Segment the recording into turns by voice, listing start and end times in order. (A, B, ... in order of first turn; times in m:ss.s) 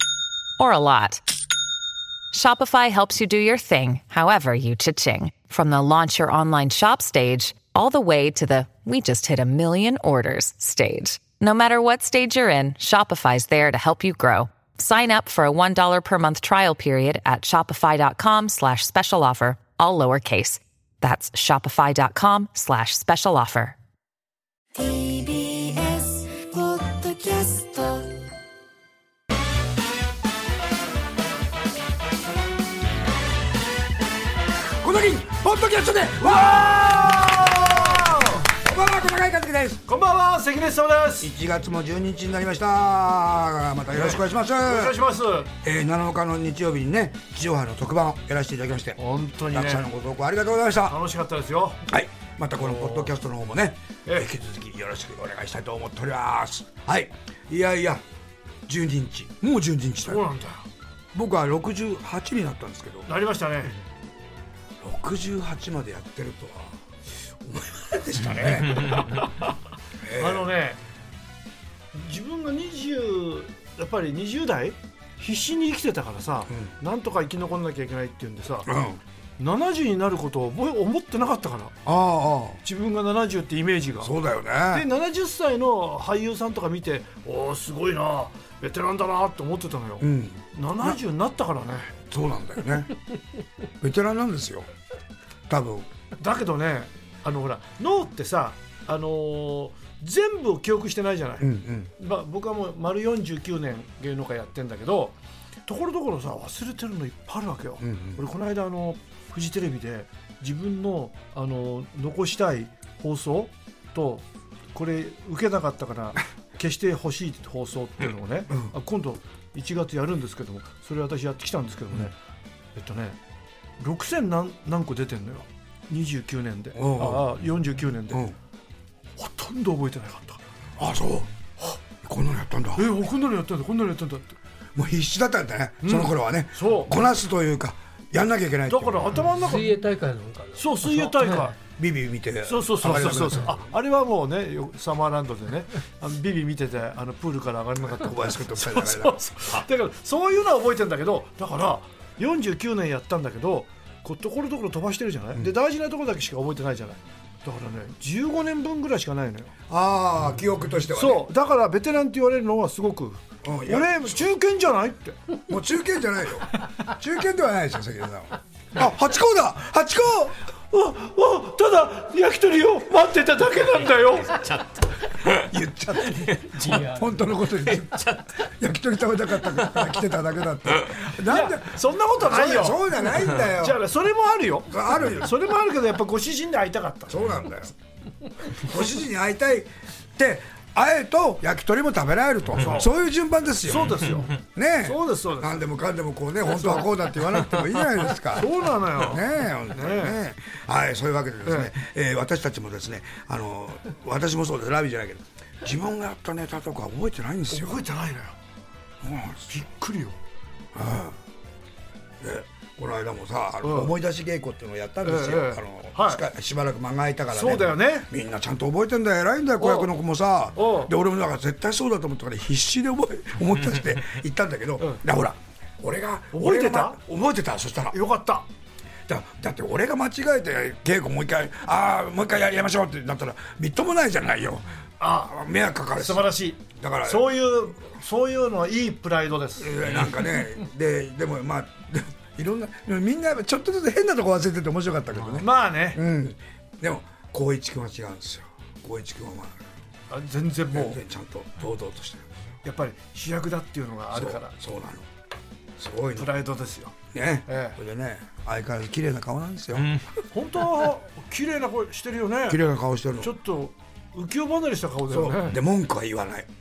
0:00.6-0:01.2 A
0:02.3-0:23.8 A
0:24.7-0:28.2 B
0:34.8-0:39.8 C
0:36.6-0:38.5 D
0:39.9-0:41.3 D
0:41.2-0:45.0 C
0:43.9-0:45.5 D
0:45.6-0:49.0 C
0:49.0-0:49.8 D
0:49.5-0:51.0 C
0:50.8-0:51.8 D
0:51.9-0:58.0 C
0:52.6-0:53.1 D
0:54.0-0:54.3 D
0:58.7-1:00.2 C
1:00.0-1:00.6 D
1:01.1-1:03.1 C
1:03.1-1:03.7 D
1:04.8-1:06.8 C
1:07.4-1:09.0 C
1:08.8-1:09.5 D
1:10.0-1:10.5 C
1:10.2-1:10.8 D
1:11.9-1:18.7 D
1:18.6-1:19.0 C
1:19.4-1:21.8 D
1:21.8-1:22.6 C
1:22.6-1:31.9 D
1:24.0-1:24.9 C
1:30.0-1:31.0 C
1:32.1-1:33.0 C
1:33.8-1:34.7 C
1:35.5-1:35.9 C
1:36.2-1:45.2 D
1:41.4-1:41.9 C
1:45.7-2:02.2 D
1:47.8-1:48.2 C
2:02.7-2:03.2 D
2:03.8-2:08.3 D
2:06.8-2:07.3 C
2:08.1-2:08.4 C
2:09.2-2:10.4 D
2:10.8-2:11.3 C
2:12.0-2:12.9 C
2:12.7-2:14.4 D
2:14.7-2:19.3 C
2:15.8-2:17.0 D
2:18.7-2:19.8 D
2:19.4-2:21.5 E
2:20.6-2:21.6 D
2:21.8-2:23.6 C
2:22.4-2:39.5 D
2:27.9-2:29.2 C
2:39.7-2:41.2 C
2:40.9-2:45.2 D
2:43.4-2:44.3 C
2:45.5-2:50.4 C
2:50.7-2:54.6 D
2:55.3-3:03.8 C
2:56.0-2:57.2 E
2:56.6-2:56.9 D
3:01.2-3:07.3 D
3:04.7-3:05.3 C
3:07.1-3:07.7 C
3:08.5-3:27.8 C
3:12.5-3:12.9 D
3:13.6-3:15.7 D
3:16.4-3:17.0 D
3:18.3-3:20.2 D
3:21.4-3:21.7 D
3:27.5-3:28.4 D
3:29.0-3:29.5 C
3:29.5-3:30.2 D
3:30.7-3:31.2 C
3:32.2-3:48.0 C
3:33.6-3:33.9 D
3:35.0-3:36.2 D
3:37.3-3:38.1 D
3:39.6-3:39.9 D
3:40.6-3:40.9 D
3:46.3-3:47.0 D
3:47.9-3:48.5 D
3:49.1-3:57.3 C
3:55.0-3:55.4 D
3:55.9-4:00.5 D
3:59.6-4:09.6 C
4:05.4-4:06.0 D
4:10.1-4:11.0 D
4:10.7-4:12.3 C
4:12.6-4:14.6 D
4:14.1-4:15.1 C
4:15.8-4:16.3 C
4:16.2-4:17.8 D
4:17.1-4:20.0 C
4:20.3-4:22.6 D
4:22.5-4:23.3 C
4:23.2-4:25.6 D
4:25.1-4:26.5 C